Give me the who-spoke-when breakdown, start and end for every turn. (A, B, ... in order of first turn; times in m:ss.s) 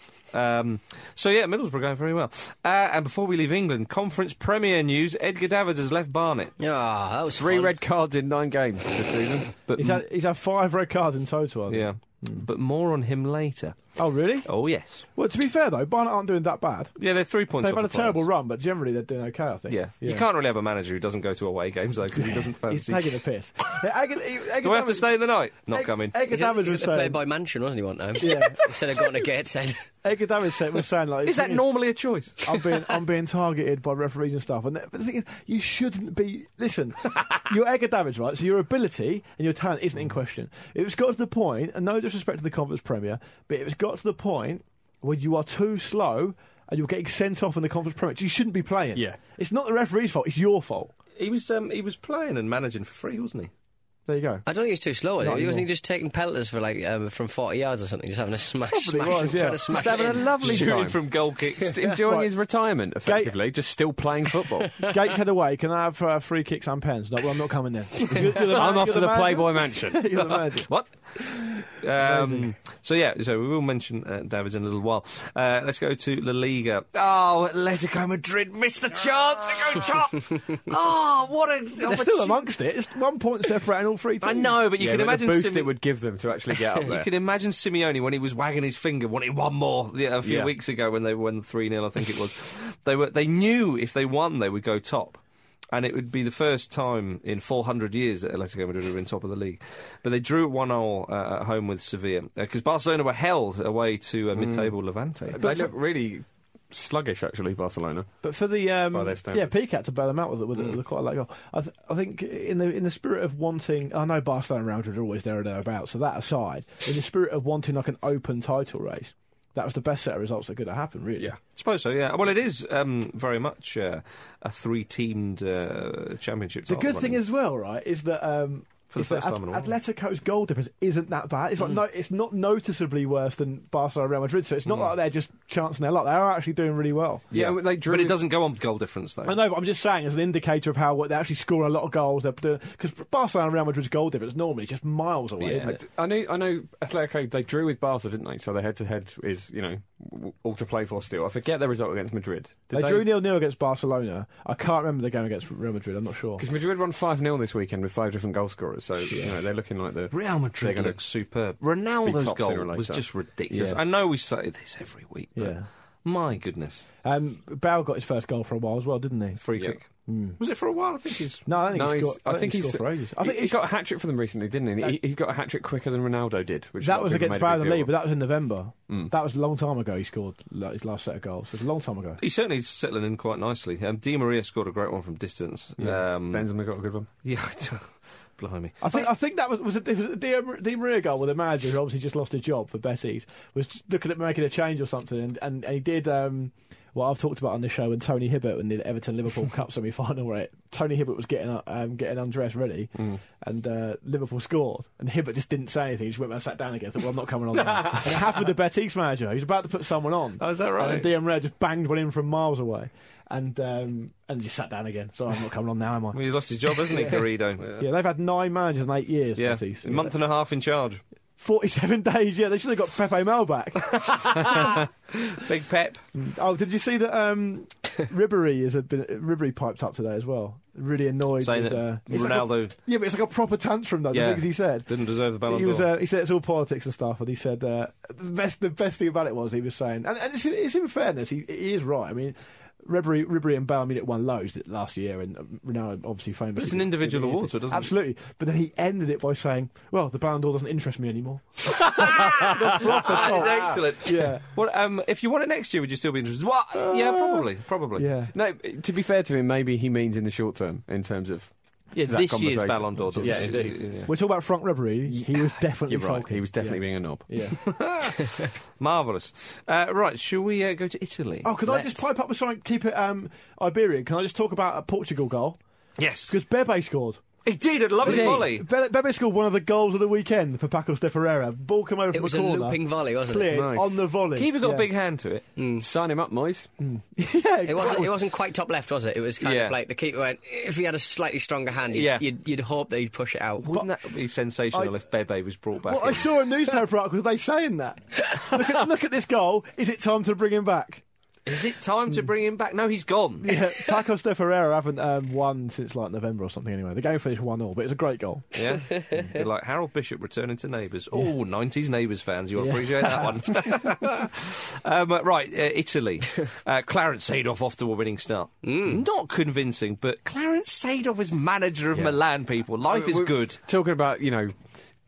0:00.3-0:06.5 A
0:06.6-0:07.7 B
0:07.4-0:09.5 C
0:09.7-0:10.0 A
0:09.8-0:12.4 D
0:11.7-0:15.0 A
0:14.0-0:14.5 D
0:15.1-0:17.0 D
0:17.0-0:18.2 A
0:17.6-0:20.2 D
0:19.7-0:23.2 A
0:22.2-0:27.2 D
0:24.6-0:26.2 A
0:26.3-0:29.8 B
0:28.2-0:29.0 D
0:30.0-0:31.6 D
0:31.2-0:32.4 A
0:32.4-0:50.9 D
0:51.2-0:53.5 A
0:54.1-0:54.4 D
0:54.4-1:00.5 B
0:55.2-0:55.7 D
0:58.7-1:00.7 D
0:59.0-1:02.1 A
1:00.2-1:01.0 C
1:01.8-1:04.7 C
1:03.0-1:03.3 D
1:04.8-1:10.7 D
1:08.2-1:10.3 C
1:10.3-1:22.5 A
1:12.0-1:12.5 D
1:21.8-1:24.6 D
1:24.2-1:25.7 A
1:24.8-1:27.1 C
1:26.7-1:35.2 A
1:30.2-1:30.5 C
1:35.7-1:45.4 A
1:44.3-1:44.7 C
1:45.3-1:48.1 C
1:45.4-1:45.7 D
1:48.2-2:01.3 D
1:48.9-1:49.5 C
2:01.5-2:07.2 A
2:06.7-2:17.3 D
2:08.9-2:09.7 A
2:17.3-2:18.2 C
2:17.3-2:19.4 A
2:19.2-2:25.8 D
2:25.4-2:25.7 A
2:25.5-2:33.1 C
2:32.7-2:36.4 D
2:36.4-2:41.0 C
2:40.1-2:46.9 A
2:42.0-2:43.8 C
2:45.4-2:45.7 D
2:47.0-2:49.4 D
2:49.4-2:51.5 A
2:50.1-2:50.4 D
2:51.4-2:53.6 D
2:51.7-2:57.9 C
2:56.8-3:02.2 D
3:02.2-3:06.5 A
3:05.8-3:07.1 C
3:07.2-3:09.1 A
3:08.8-3:40.1 D
3:30.4-3:31.1 A
3:36.1-3:37.7 A
3:39.4-3:41.0 A
3:41.4-3:44.8 D
3:44.0-3:46.0 A
3:46.1-3:54.9 D
3:51.4-3:52.7 A
3:54.1-3:55.9 A
3:55.5-4:14.4 D
4:06.6-4:07.9 A
4:11.7-4:18.1 A
4:12.9-4:13.8 C
4:16.9-4:17.2 D
4:17.9-4:18.3 D
4:18.3-4:21.5 C
4:21.9-4:24.1 A
4:22.0-4:24.1 C
4:23.1-4:27.7 D
4:25.1-4:27.3 C
4:27.6-4:31.9 A
4:31.4-4:35.6 D
4:36.0-4:36.4 A
4:36.3-4:37.2 D
4:37.4-4:38.6 A
4:38.0-4:38.5 C
4:38.0-4:44.9 D
4:42.1-4:43.5 B
4:43.5-4:44.2 C
4:44.3-4:45.4 A
4:45.6-4:45.8 B
4:45.8-4:46.7 C
4:46.8-4:48.1 D
4:47.6-4:53.7 B
4:49.4-4:49.8 A
4:51.9-4:52.2 A
4:53.6-4:56.3 A
4:55.8-5:01.0 D
5:01.4-5:03.6 A
5:03.4-5:09.3 D
5:08.5-5:23.6 A
5:12.6-5:13.7 D
5:18.6-5:19.0 B
5:21.9-5:22.2 C
5:22.9-5:24.6 C